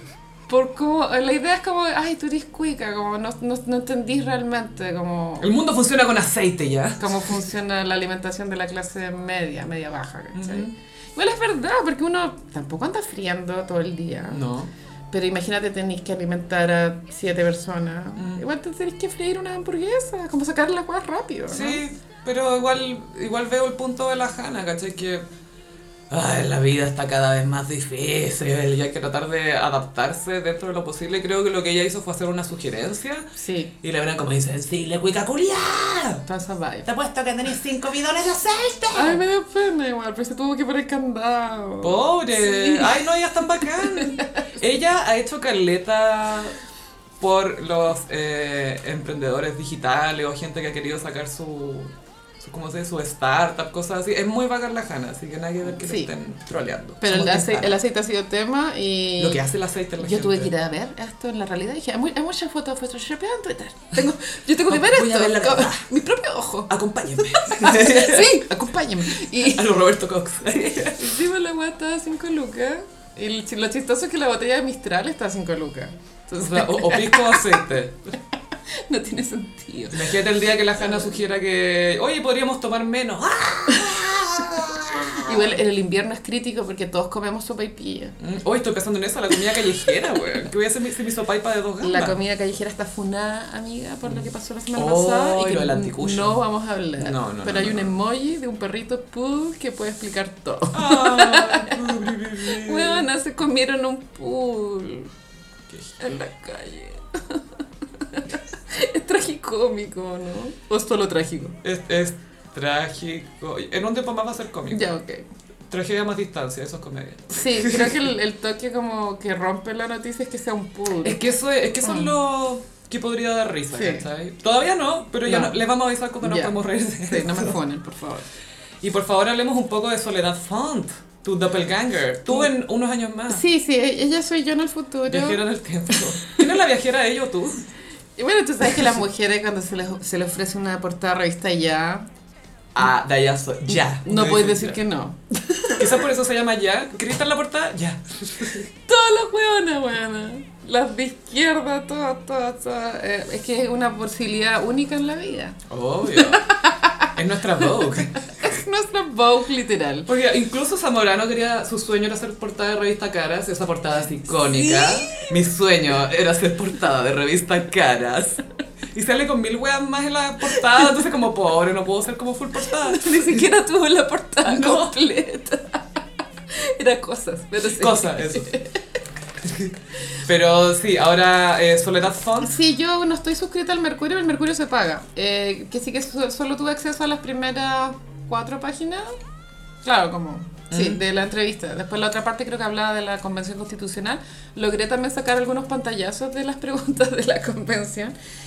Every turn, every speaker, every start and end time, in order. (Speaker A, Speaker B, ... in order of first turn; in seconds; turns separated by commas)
Speaker A: 0.5-5.5, Speaker B: 5.4-7.3, Speaker A: 7.0-14.4, Speaker B: 10.3-10.7, Speaker B: 14.3-14.7, Speaker A: 15.1-21.8, Speaker B: 18.1-18.4, Speaker B: 21.5-25.2, Speaker B: 26.1-33.2, Speaker A: 33.4-33.7, Speaker B: 33.8-36.2, Speaker C: 35.5-36.0, Speaker A: 36.2-36.9, Speaker C: 36.9-39.2, Speaker A: 38.9-44.3, Speaker B: 41.8-46.6, Speaker B: 47.2-57.8, Speaker A: 55.7-56.1, Speaker A: 57.0-59.4, Speaker B: 59.2-60.5, Speaker A: 60.0-69.7, Speaker B: 64.7-65.8, Speaker C: 65.0-65.4, Speaker B: 66.7-68.5, Speaker B: 69.2-71.1, Speaker A: 71.0-77.6, Speaker B: 76.4-78.1, Speaker A: 78.9-80.1, Speaker B: 79.9-85.5, Speaker A: 80.8-81.1, Speaker A: 85.2-88.2, Speaker B: 88.2-92.1, Speaker A: 91.8-105.1, Speaker B: 94.1-96.4, Speaker B: 97.0-97.9, Speaker B: 100.7-103.0, Speaker B: 105.7-106.0, Speaker A: 106.0-107.4, Speaker A: 108.0-111.6, Speaker B: 111.6-114.9, Speaker A: 114.7-115.3, Speaker B: 115.7-118.1, Speaker A: 117.3-121.2, Speaker B: 121.0-127.5, Speaker A: 121.8-122.1, Speaker A: 123.7-124.1, Speaker A: 125.2-125.6, Speaker A: 126.2-126.5, Speaker A: 127.0-128.3, Speaker B: 128.8-133.4, Speaker A: 133.3-135.4, Speaker B: 135.1-137.6, Speaker A: 138.2-142.0, Speaker B: 142.7-144.8, Speaker A: 144.0-146.1, Speaker B: 145.7-148.7, Speaker A: 148.9-157.1, Speaker B: 155.7-156.5, Speaker B: 157.1-158.5, Speaker A: 158.2-160.1, Speaker B: 160.1-168.4, Speaker A: 164.5-165.4, Speaker B: 168.9-173.4, Speaker A: 172.6-176.0, Speaker B: 174.4-174.9, Speaker A: 176.5-178.8, Speaker B: 177.6-178.6, Speaker B: 179.4-182.5, Speaker A: 182.4-189.2, Speaker A: 189.8-198.1, Speaker B: 190.7-191.0